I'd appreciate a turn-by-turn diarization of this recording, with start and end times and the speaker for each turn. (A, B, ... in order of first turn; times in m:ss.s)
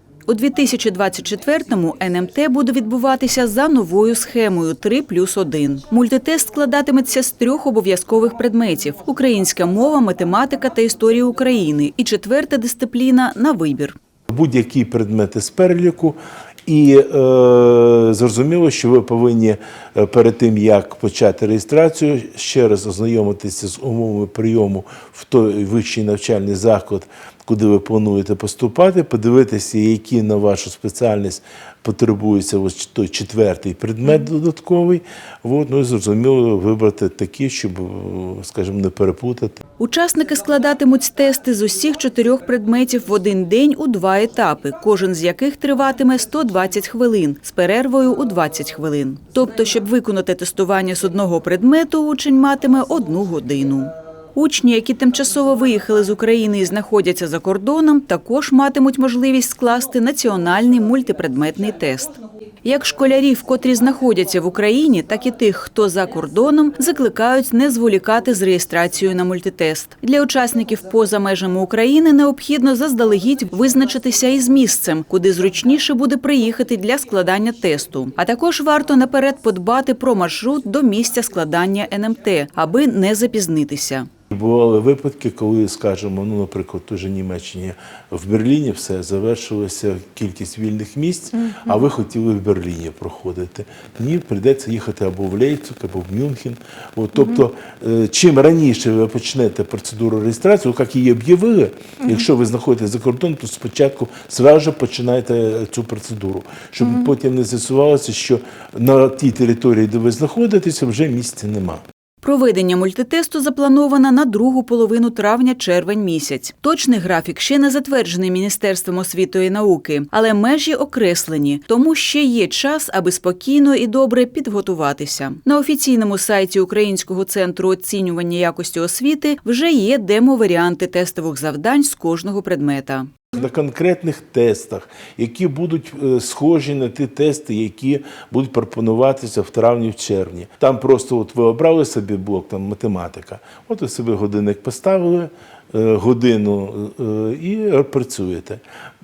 0:00.3-0:14.0 A
0:14.3-0:39.6 B
0:39.8-1:24.1 A
1:24.3-1:51.8 B
1:52.2-2:13.1 A
2:13.3-2:28.6 B